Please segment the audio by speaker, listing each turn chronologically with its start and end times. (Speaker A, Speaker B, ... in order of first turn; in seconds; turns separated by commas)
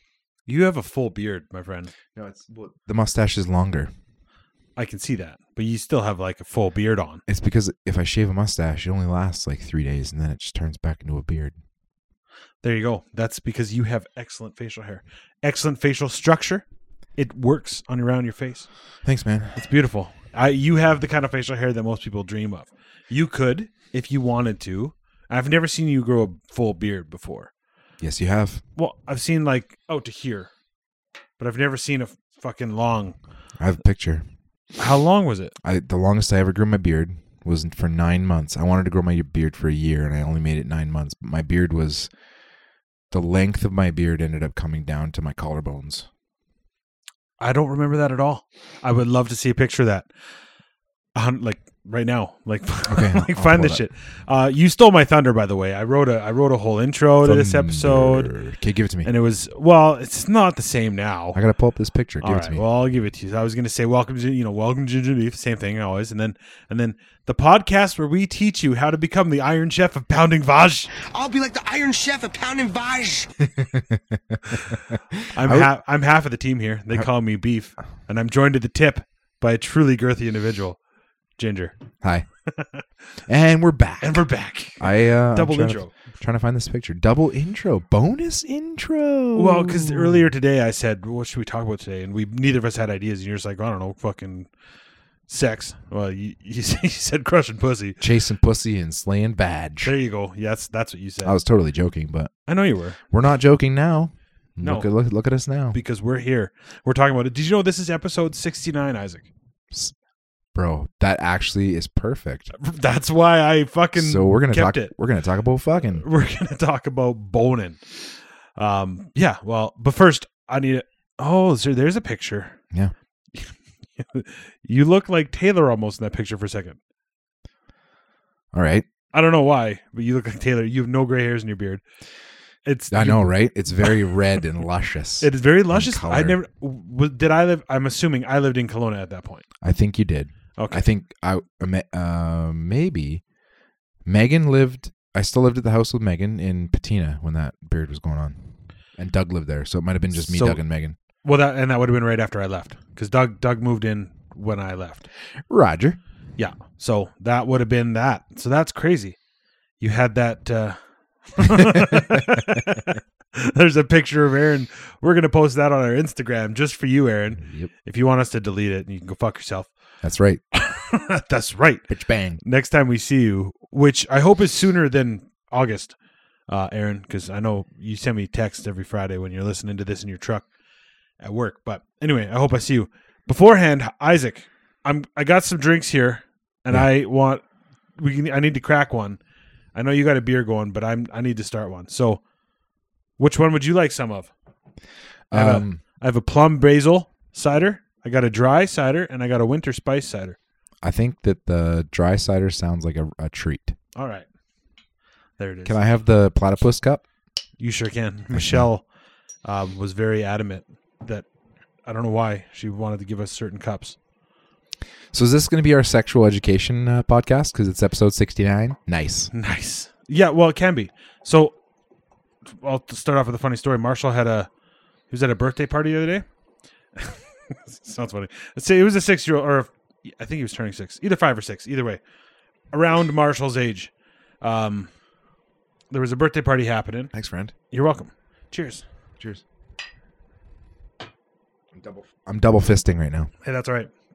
Speaker A: 0.5-1.9, Speaker B: 2.1-3.9, Speaker A: 4.8-7.2, Speaker B: 7.3-11.6, Speaker A: 12.6-16.6, Speaker A: 17.2-18.7, Speaker B: 19.0-19.6, Speaker A: 19.6-27.5, Speaker B: 28.0-28.6, Speaker A: 28.8-30.5, Speaker A: 31.4-33.2, Speaker B: 33.6-34.2, Speaker A: 34.8-35.5, Speaker B: 35.6-42.1, Speaker B: 43.1-46.1, Speaker A: 47.4-50.1, Speaker A: 51.1-58.4, Speaker B: 52.9-53.8, Speaker B: 57.2-59.1, Speaker A: 59.0-61.4, Speaker B: 61.3-62.6, Speaker A: 62.2-70.9, Speaker C: 71.0-73.5, Speaker B: 73.6-75.7, Speaker A: 75.3-80.8, Speaker A: 81.4-81.8, Speaker B: 82.0-82.3, Speaker A: 82.5-82.8, Speaker B: 83.3-90.2, Speaker A: 84.0-85.9, Speaker A: 89.3-94.5, Speaker A: 95.3-98.0, Speaker B: 98.0-99.9, Speaker A: 99.8-101.4, Speaker B: 101.2-102.3, Speaker A: 102.5-103.0, Speaker B: 103.1-105.8, Speaker A: 104.6-104.9, Speaker A: 105.7-109.3, Speaker B: 110.5-112.5, Speaker A: 112.6-114.9, Speaker B: 114.0-116.0, Speaker A: 116.0-117.9, Speaker A: 118.6-122.6, Speaker A: 123.3-126.8, Speaker B: 128.5-128.9, Speaker A: 129.1-131.8, Speaker A: 132.7-134.1, Speaker B: 132.9-136.4, Speaker A: 135.2-139.4, Speaker B: 139.6-143.2, Speaker A: 140.6-140.9, Speaker B: 144.1-151.0, Speaker A: 150.1-150.6, Speaker A: 151.2-155.1, Speaker B: 155.5-156.0, Speaker A: 156.4-159.2, Speaker A: 159.8-169.7, Speaker B: 161.8-162.0, Speaker B: 167.4-167.7, Speaker B: 170.0-170.4, Speaker A: 170.5-171.9, Speaker B: 171.9-172.4, Speaker A: 172.4-176.0, Speaker A: 176.5-180.5, Speaker A: 181.2-187.4, Speaker A: 188.0-189.2, Speaker A: 189.8-192.2, Speaker A: 193.2-194.3, Speaker B: 195.3-195.8, Speaker A: 195.3-200.4, Speaker B: 200.8-203.8, Speaker A: 203.9-204.3, Speaker A: 205.4-205.8, Speaker B: 205.7-207.0, Speaker A: 207.6-208.8, Speaker B: 208.3-208.7, Speaker A: 209.4-211.3, Speaker A: 211.8-214.0, Speaker B: 215.1-219.3, Speaker A: 219.3-221.6, Speaker A: 222.5-224.5, Speaker A: 225.1-226.2, Speaker A: 227.0-232.0, Speaker A: 232.7-234.9, Speaker A: 235.9-237.1, Speaker B: 237.1-237.5, Speaker A: 237.7-238.8, Speaker B: 241.7-243.3, Speaker A: 243.4-243.9